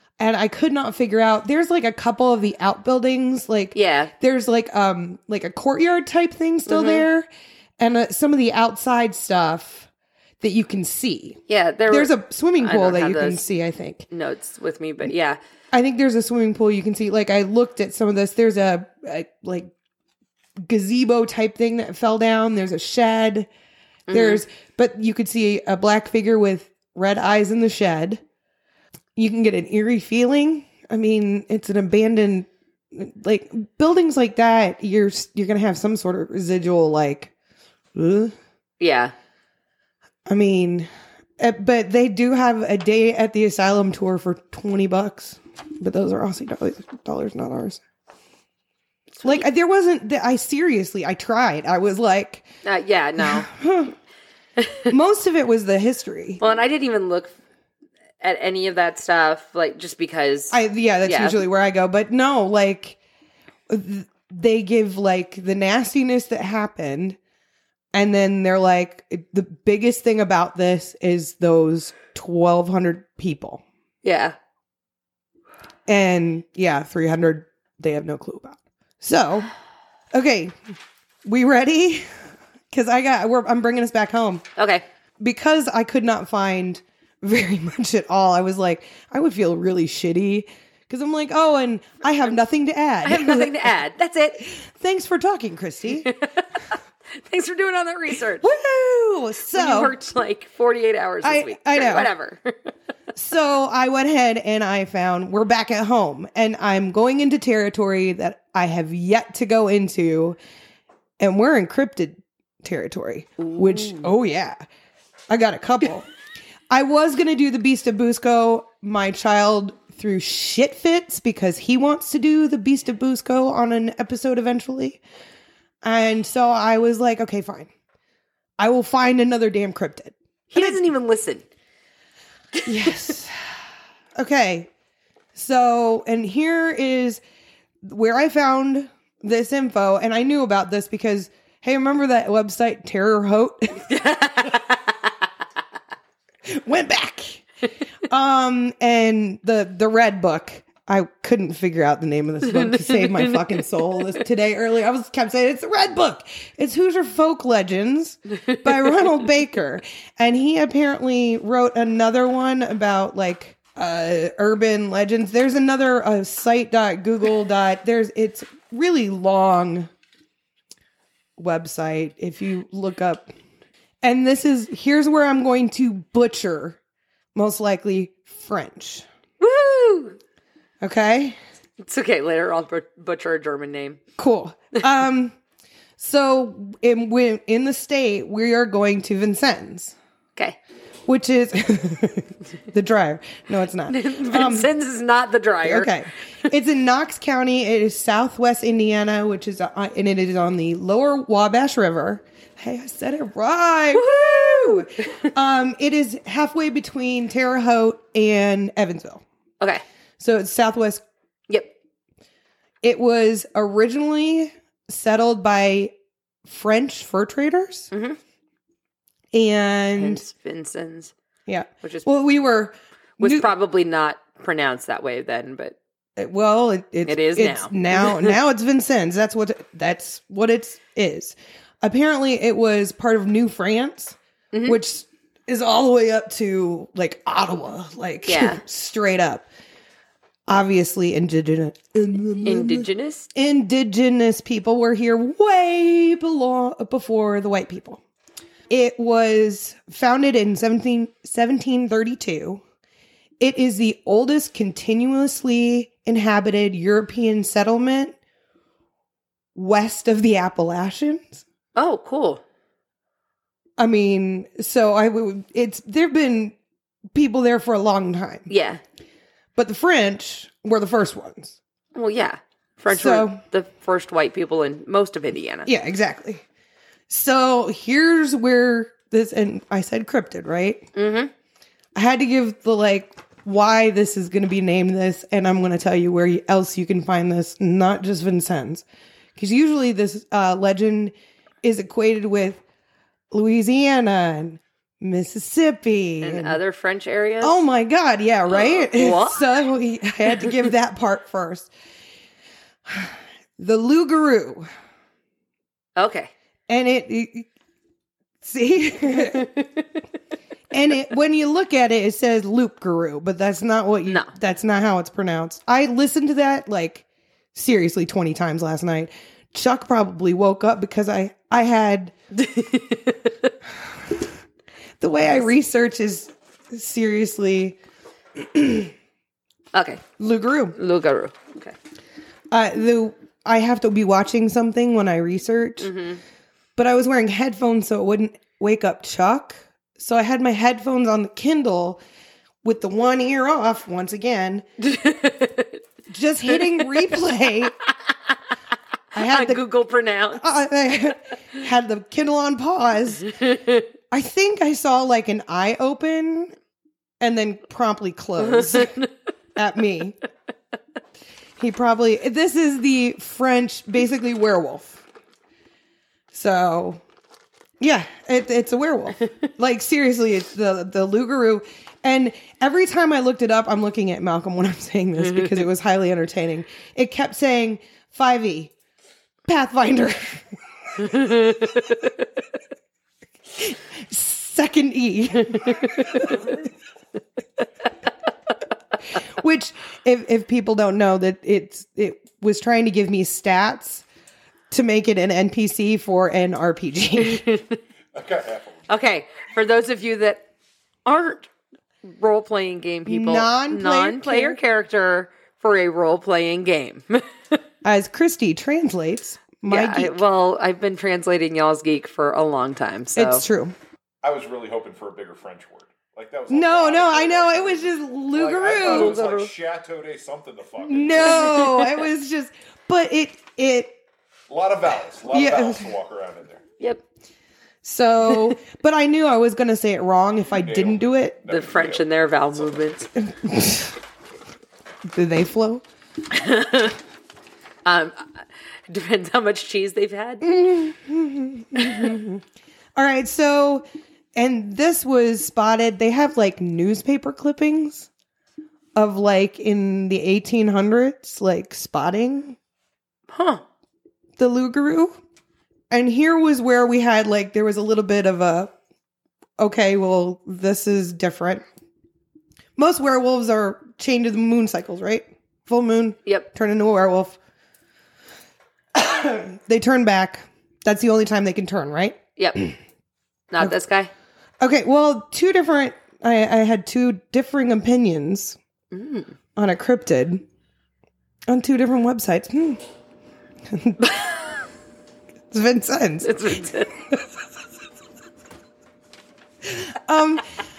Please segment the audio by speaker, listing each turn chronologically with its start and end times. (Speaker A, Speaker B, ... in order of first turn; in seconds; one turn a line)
Speaker A: 0.2-7.3
Speaker B: 3.7-4.1
Speaker B: 6.7-7.1
Speaker A: 7.8-9.9
Speaker A: 10.4-14.1
Speaker B: 11.5-13.4
Speaker B: 14.1-15.4
Speaker A: 15.7-19.7
Speaker A: 20.6-23.5
Speaker B: 24.1-24.4
Speaker A: 24.1-28.2
Speaker A: 29.2-37.3
Speaker A: 38.0-38.3
Speaker B: 38.8-39.1
Speaker A: 40.3-47.8
Speaker B: 49.1-49.4
Speaker A: 49.2-52.5
Speaker B: 52.6-53.5
Speaker A: 53.2-54.0
Speaker B: 54.6-54.9
Speaker A: 54.9-56.4
Speaker B: 56.4-57.3
Speaker B: 58.2-61.4
Speaker A: 60.5-63.0
Speaker A: 63.7-67.2
Speaker A: 67.9-73.6
Speaker B: 74.0-74.4
Speaker A: 75.9-79.5
Speaker A: 80.1-80.6
Speaker A: 81.2-82.1
Speaker A: 82.7-84.5
Speaker B: 84.6-84.8
Speaker A: 85.2-93.7
Speaker B: 93.0-94.5
Speaker A: 94.4-96.1
Speaker B: 96.0-98.5
Speaker A: 98.4-99.9
Speaker B: 99.5-102.5
Speaker A: 101.2-102.1
Speaker A: 103.2-110.4
Speaker A: 111.2-114.6
Speaker B: 113.4-114.1
Speaker A: 115.3-116.1
Speaker A: 116.7-125.0
Speaker A: 125.8-127.7
Speaker A: 128.6-130.8
Speaker B: 130.5-131.4
Speaker A: 132.7-133.4
Speaker A: 134.2-134.7
Speaker A: 135.3-137.2
Speaker A: 137.8-143.9
Speaker B: 143.8-145.1
Speaker A: 146.5-147.4
Speaker A: 148.1-169.9
Speaker B: 152.5-153.5
Speaker A: 171.4-173.3
Speaker A: 174.0-176.8
Speaker A: 177.3-179.1
Speaker B: 179.4-180.2
Speaker A: 180.8-181.4
Speaker B: 181.8-184.0
Speaker A: 184.2-185.3
Speaker A: 186.0-189.9
Speaker A: 191.1-194.7
Speaker B: 193.9-195.9
Speaker A: 195.6-209.2
Speaker B: 203.9-205.3
Speaker A: 210.2-211.0
Speaker A: 212.8-215.9
Speaker A: 216.5-217.9
Speaker B: 217.9-218.2
Speaker A: 219.3-220.2
Speaker B: 220.0-221.1
Speaker A: 221.5-223.5
Speaker B: 221.8-222.1
Speaker B: 223.2-225.8
Speaker A: 226.2-239.5
Speaker B: 227.1-228.3
Speaker B: 234.5-234.8
Speaker B: 238.2-238.6
Speaker A: 240.5-248.0
Speaker B: 242.4-243.3
Speaker A: 248.7-252.6
Speaker A: 253.4-258.2
Speaker A: 259.6-261.4
Speaker B: 261.8-262.4
Speaker A: 263.8-266.6
Speaker A: 267.1-268.5
Speaker B: 268.5-268.8
Speaker A: 269.6-271.6
Speaker B: 271.9-275.7
Speaker A: 272.9-273.4
Speaker A: 275.6-276.4
Speaker A: 277.1-280.9
Speaker B: 280.9-281.3
Speaker A: 281.9-288.9
Speaker A: 289.4-292.6
Speaker A: 293.3-296.6
Speaker B: 296.2-297.6
Speaker A: 297.4-301.7
Speaker B: 298.5-299.5
Speaker A: 302.9-304.7
Speaker B: 306.0-306.3
Speaker A: 306.7-307.5
Speaker A: 308.4-309.5
Speaker B: 309.4-309.6
Speaker A: 310.7-322.1
Speaker B: 314.1-314.3
Speaker B: 322.3-323.5
Speaker A: 323.8-324.2
Speaker A: 325.0-327.8
Speaker A: 328.4-328.9
Speaker B: 329.7-330.0
Speaker A: 330.2-330.8
Speaker B: 330.8-331.8
Speaker A: 332.5-335.9
Speaker B: 335.8-336.2
Speaker A: 336.8-342.0
Speaker A: 342.6-344.7
Speaker B: 344.8-345.8
Speaker A: 346.1-347.8
Speaker B: 346.6-346.9
Speaker A: 349.1-349.6
Speaker B: 349.2-350.4
Speaker A: 350.4-353.3
Speaker B: 353.3-353.9
Speaker A: 354.1-356.5
Speaker A: 357.2-359.0
Speaker B: 358.4-359.1
Speaker A: 359.6-360.2
Speaker A: 361.6-365.0
Speaker A: 366.3-367.0
Speaker A: 367.8-378.7
Speaker B: 375.2-375.6
Speaker A: 379.5-381.7
Speaker B: 381.0-382.1
Speaker A: 383.5-386.0
Speaker B: 385.6-386.3
Speaker A: 389.1-394.1
Speaker A: 394.7-397.4
Speaker B: 397.2-397.8
Speaker C: 398.1-398.9
Speaker B: 398.9-400.4
Speaker B: 401.1-401.5
Speaker B: 402.1-407.6
Speaker A: 403.1-404.6
Speaker A: 407.8-410.2
Speaker B: 409.7-413.4
Speaker A: 413.1-413.8
Speaker C: 414.2-421.5
Speaker A: 416.5-419.2
Speaker B: 418.8-419.5
Speaker A: 420.8-424.0
Speaker B: 421.4-422.0
Speaker C: 424.5-426.6
Speaker A: 425.3-425.9
Speaker A: 427.8-431.4
Speaker C: 430.5-432.9
Speaker B: 431.5-433.1
Speaker A: 433.2-434.0
Speaker A: 435.1-435.8
Speaker B: 436.3-437.0
Speaker B: 437.9-440.5
Speaker A: 440.4-442.4
Speaker B: 441.8-442.1
Speaker A: 442.9-448.1
Speaker A: 448.9-452.6
Speaker B: 453.3-453.6
Speaker A: 454.4-455.2
Speaker A: 455.9-458.7
Speaker A: 459.6-461.6
Speaker A: 462.8-467.4
Speaker A: 468.9-472.7
Speaker B: 472.4-472.7
Speaker B: 473.5-474.1
Speaker A: 474.6-478.6
Speaker B: 478.9-479.4
Speaker A: 479.6-480.4
Speaker A: 481.5-482.8
Speaker A: 483.7-484.0
Speaker B: 484.0-484.5
Speaker A: 485.5-486.4
Speaker B: 486.2-486.9
Speaker A: 489.6-490.4